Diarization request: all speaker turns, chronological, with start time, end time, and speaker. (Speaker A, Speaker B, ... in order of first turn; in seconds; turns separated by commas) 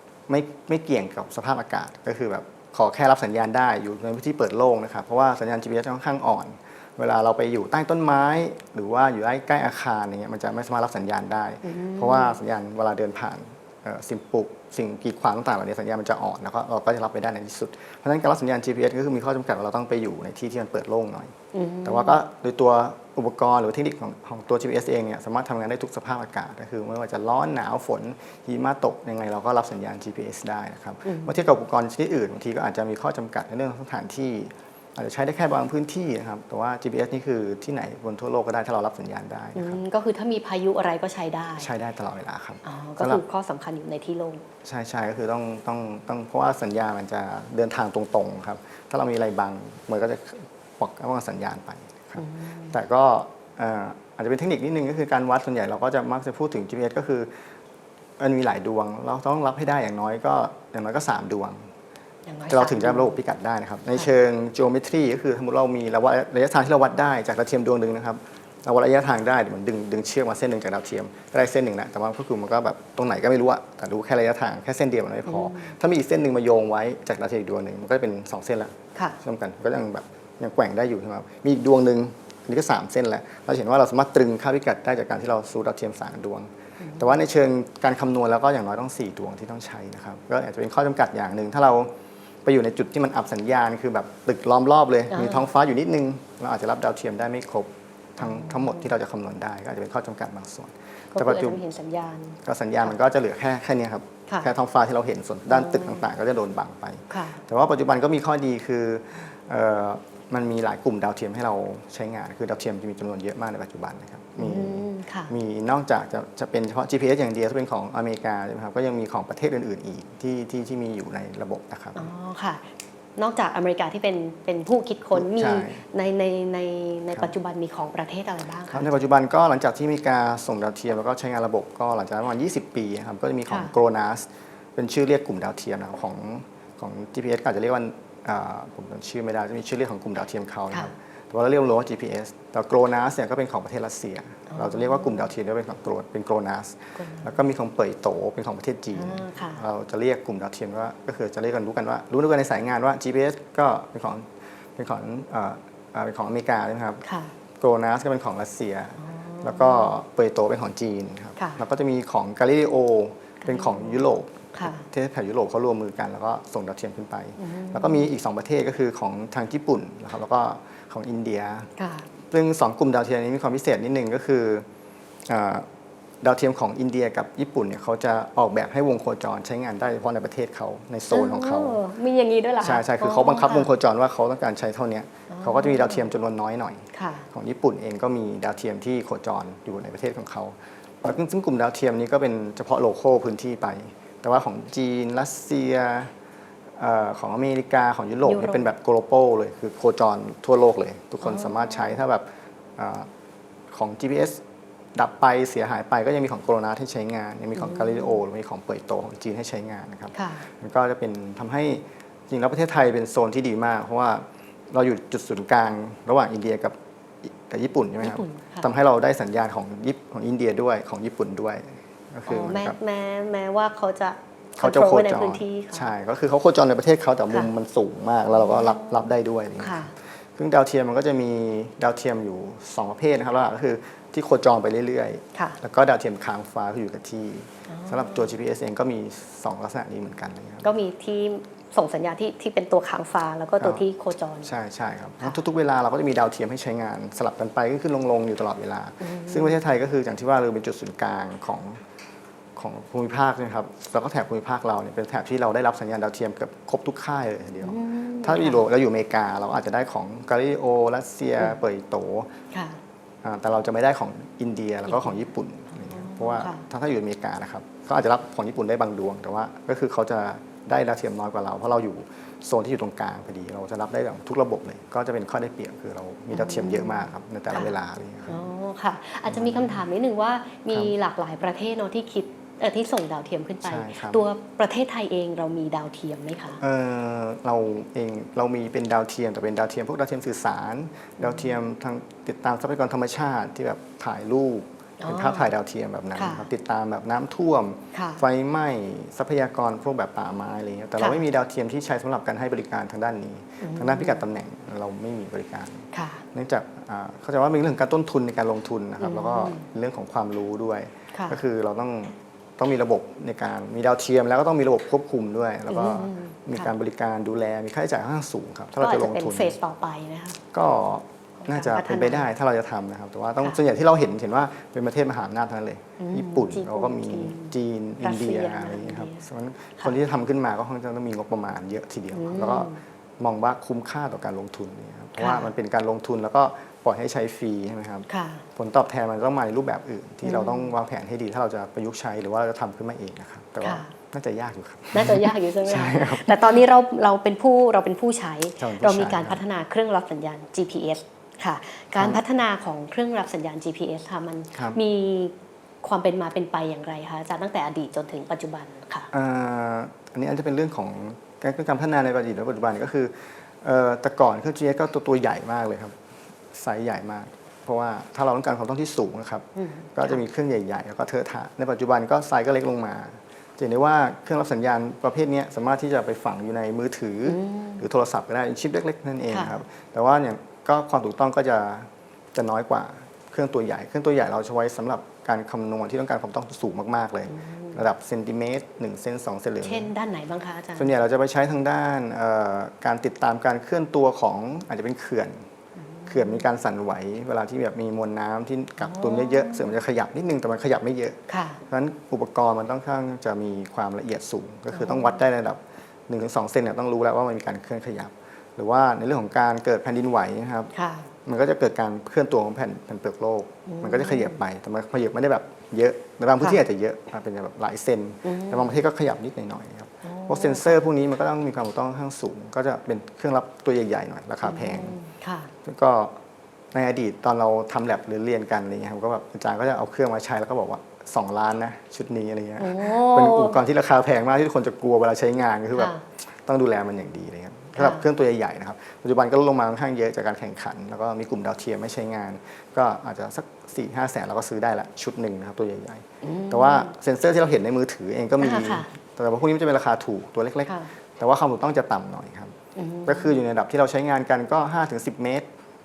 Speaker A: 0.3-21.3, Speaker B: 11.6-12.4, Speaker B: 21.5-22.2, Speaker A: 21.9-39.8, Speaker B: 31.1-31.3, Speaker B: 39.5-41.7, Speaker A: 41.6-43.2, Speaker B: 42.6-44.5, Speaker A: 44.6-57.3, Speaker B: 52.2-52.8, Speaker A: 58.2-61.6, Speaker B: 62.3-63.2, Speaker A: 62.5-91.9, Speaker B: 75.3-75.8, Speaker B: 86.8-87.1, Speaker A: 92.5-101.6, Speaker B: 95.1-95.5, Speaker B: 98.2-98.9, Speaker B: 101.1-102.4, Speaker A: 102.4-122.1, Speaker B: 105.5-106.0, Speaker B: 107.1-107.4, Speaker B: 114.4-115.3, Speaker B: 122.0-122.7, Speaker B: 123.2-128.9, Speaker A: 125.1-125.8, Speaker A: 128.7-157.0, Speaker B: 133.5-133.7, Speaker B: 144.5-145.3, Speaker B: 147.0-147.3, Speaker B: 148.9-149.6, Speaker B: 157.0-157.3, Speaker A: 157.6-171.7, Speaker B: 159.0-159.9, Speaker B: 163.4-164.0, Speaker B: 164.6-164.9, Speaker B: 167.4-168.1, Speaker B: 171.8-172.1, Speaker A: 172.3-174.7, Speaker A: 175.3-175.7, Speaker A: 176.2-181.8, Speaker B: 181.1-183.7, Speaker A: 182.6-196.1, Speaker B: 185.3-186.1, Speaker B: 186.9-187.3, Speaker A: 196.8-202.2, Speaker B: 198.2-198.7, Speaker B: 201.2-201.9, Speaker A: 202.8-203.1, Speaker A: 203.7-204.4, Speaker A: 204.9-222.8, Speaker B: 207.6-208.2, Speaker B: 210.2-210.5, Speaker B: 218.0-218.7, Speaker B: 222.3-225.9, Speaker A: 224.6-240.7, Speaker B: 228.4-229.0, Speaker B: 229.6-229.9, Speaker B: 237.7-238.3, Speaker B: 240.6-244.5, Speaker A: 243.6-243.8, Speaker A: 244.4-251.8, Speaker B: 249.0-249.6, Speaker A: 252.6-262.3, Speaker B: 257.6-258.6, Speaker B: 262.5-262.8, Speaker A: 263.2-278.4, Speaker B: 264.9-265.2, Speaker B: 265.9-266.7, Speaker B: 276.3-277.7, Speaker B: 278.3-286.6, Speaker A: 279.3-279.8, Speaker A: 283.6-284.2, Speaker A: 286.6-319.6, Speaker B: 291.2-291.5, Speaker B: 295.0-295.5, Speaker B: 296.1-296.5, Speaker B: 297.9-298.2, Speaker B: 303.6-304.2, Speaker B: 305.9-306.2, Speaker B: 309.0-309.7, Speaker B: 311.1-311.4, Speaker B: 315.7-316.7, Speaker B: 318.8-320.4, Speaker A: 320.5-346.6, Speaker B: 321.4-322.3, Speaker B: 326.0-329.2, Speaker B: 332.1-332.8, Speaker B: 335.2-335.5, Speaker B: 338.1-338.4, Speaker B: 340.2-340.7, Speaker B: 343.6-343.9, Speaker B: 344.9-359.1, Speaker A: 348.6-349.4, Speaker A: 352.0-352.2, Speaker A: 354.5-354.8, Speaker A: 359.1-366.0, Speaker A: 366.5-389.9, Speaker B: 369.6-370.2, Speaker B: 377.3-377.8, Speaker B: 379.3-379.6, Speaker B: 387.3-387.8, Speaker B: 389.6-390.9, Speaker A: 390.8-395.4, Speaker B: 395.9-396.4, Speaker A: 396.1-410.7, Speaker B: 398.8-399.7, Speaker B: 401.3-401.6, Speaker B: 404.7-405.2, Speaker B: 410.7-411.1, Speaker A: 411.2-425.0, Speaker B: 413.7-414.4, Speaker B: 418.2-418.7, Speaker B: 420.0-420.7, Speaker B: 424.4-425.5, Speaker A: 425.6-426.2, Speaker A: 426.7-455.5, Speaker B: 432.6-433.6, Speaker B: 435.8-436.0, Speaker B: 437.8-438.1, Speaker B: 446.2-446.9, Speaker B: 448.4-448.9, Speaker B: 452.8-453.4